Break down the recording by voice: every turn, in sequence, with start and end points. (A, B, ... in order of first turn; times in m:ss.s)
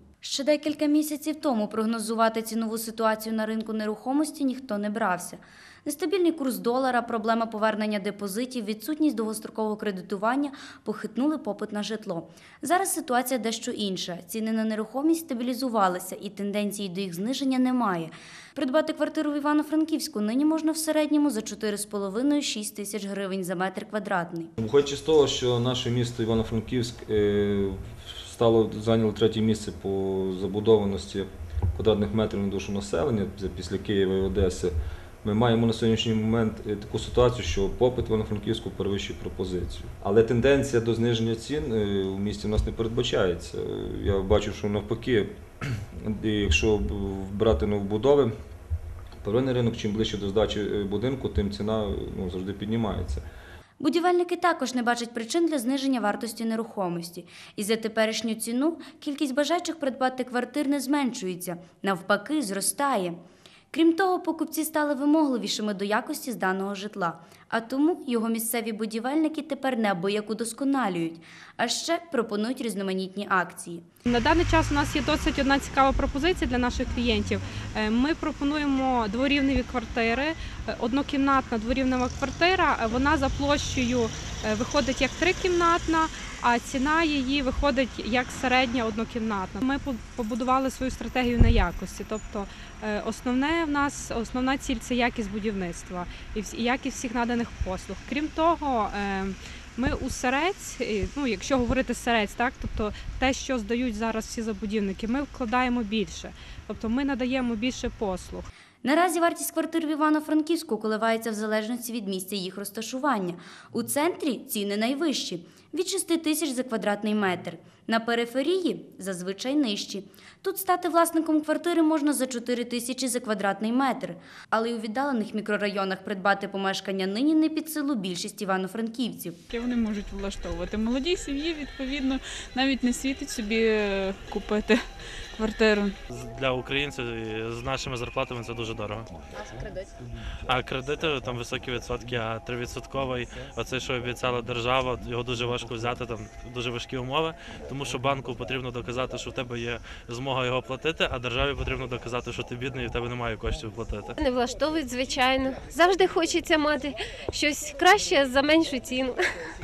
0:00.2-0:24.5 A
0:24.6-0:45.3 B
0:46.0-0:48.3 B
0:49.2-0:53.2 B
0:53.8-1:03.2 A
1:03.7-1:13.8 A
1:14.0-1:48.5 C
1:48.8-2:09.4 A
2:09.5-2:16.0 D
2:16.1-2:19.1 E
2:20.4-2:34.2 E
2:34.2-2:39.4 F